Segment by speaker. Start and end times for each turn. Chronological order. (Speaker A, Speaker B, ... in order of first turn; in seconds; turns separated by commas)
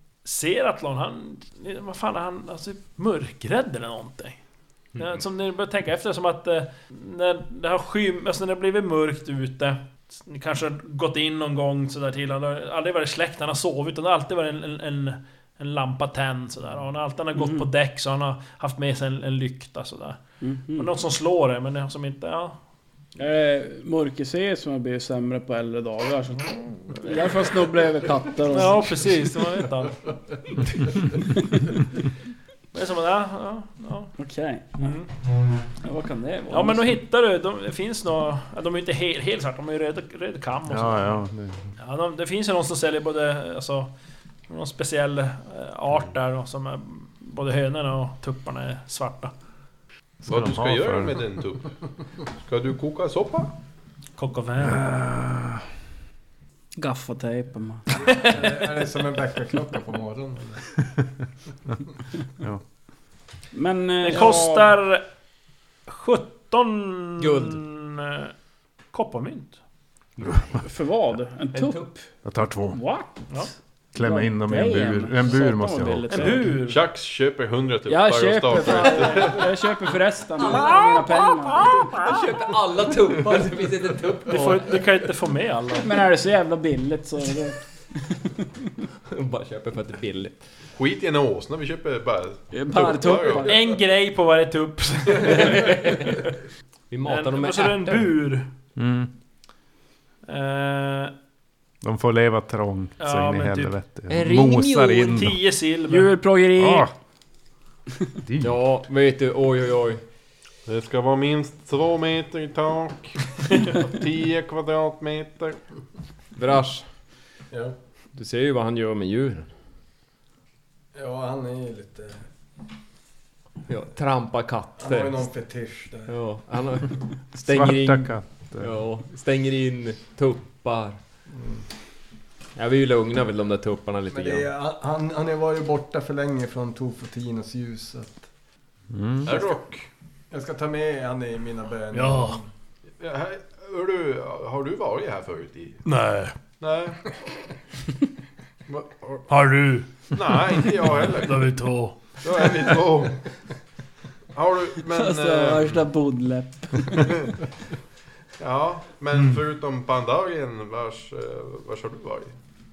Speaker A: 0.2-4.4, Speaker A: 5.0-20.2, Speaker B: 17.4-17.6, Speaker B: 20.4-20.9, Speaker A: 20.7-22.6, Speaker B: 23.2-29.1, Speaker A: 28.5-30.0, Speaker A: 32.7-34.1, Speaker B: 34.2-35.0, Speaker A: 34.8-35.1, Speaker B: 35.8-36.9, Speaker A: 36.5-41.2, Speaker C: 40.7-41.7, Speaker A: 41.8-43.9, Speaker A: 44.5-49.3, Speaker C: 50.2-51.2, Speaker D: 50.3-51.7, Speaker D: 52.4-53.5, Speaker A: 54.2-54.8, Speaker C: 54.6-55.6, Speaker B: 56.8-57.9, Speaker A: 58.0-58.5, Speaker E: 58.1-60.7, Speaker B: 63.5-64.7, Speaker A: 64.0-65.0, Speaker A: 65.9-68.3, Speaker F: 67.2-67.6, Speaker A: 68.9-69.6, Speaker F: 70.2-70.5, Speaker B: 70.5-72.0, Speaker F: 71.5-71.9, Speaker C: 72.2-72.8, Speaker B: 72.7-73.4, Speaker C: 73.9-76.4, Speaker B: 74.0-76.5, Speaker A: 76.1-76.8, Speaker D: 76.7-79.5, Speaker B: 77.9-81.8, Speaker F: 80.5-81.0, Speaker F: 81.7-84.7, Speaker A: 84.3-86.0, Speaker B: 85.8-88.1, Speaker F: 89.1-90.4, Speaker D: 90.8-93.5, Speaker B: 92.5-93.5, Speaker A: 93.4-96.3, Speaker F: 95.3-96.2, Speaker F: 96.9-98.1, Speaker A: 97.0-98.5, Speaker C: 98.8-99.1, Speaker A: 100.3-101.1, Speaker C: 101.8-105.4, Speaker A: 103.0-103.7, Speaker F: 104.1-105.2, Speaker A: 105.0-106.1, Speaker B: 105.9-106.9, Speaker C: 106.5-106.9, Speaker C: 108.2-108.5, Speaker F: 108.4-110.0, Speaker D: 110.7-115.6, Speaker F: 116.3-116.9, Speaker E: 117.5-117.8, Speaker F: 118.1-119.5, Speaker E: 120.9-122.2, Speaker F: 123.7-125.3, Speaker E: 124.8-126.1, Speaker F: 126.1-131.0, Speaker C: 127.4-128.7, Speaker E: 131.3-131.6, Speaker F: 132.6-134.5, Speaker E: 134.1-138.3, Speaker C: 138.9-139.3, Speaker D: 139.2-139.9, Speaker E: 140.3-142.5, Speaker A: 141.9-142.4, Speaker D: 143.0-145.8, Speaker A: 145.8-146.3, Speaker D: 146.6-147.0, Speaker D: 148.7-149.2, Speaker A: 149.3-150.7, Speaker D: 150.1-151.6, Speaker A: 151.2-151.9, Speaker D: 152.2-153.2, Speaker D: 154.3-155.8, Speaker B: 154.9-157.3, Speaker D: 158.4-162.3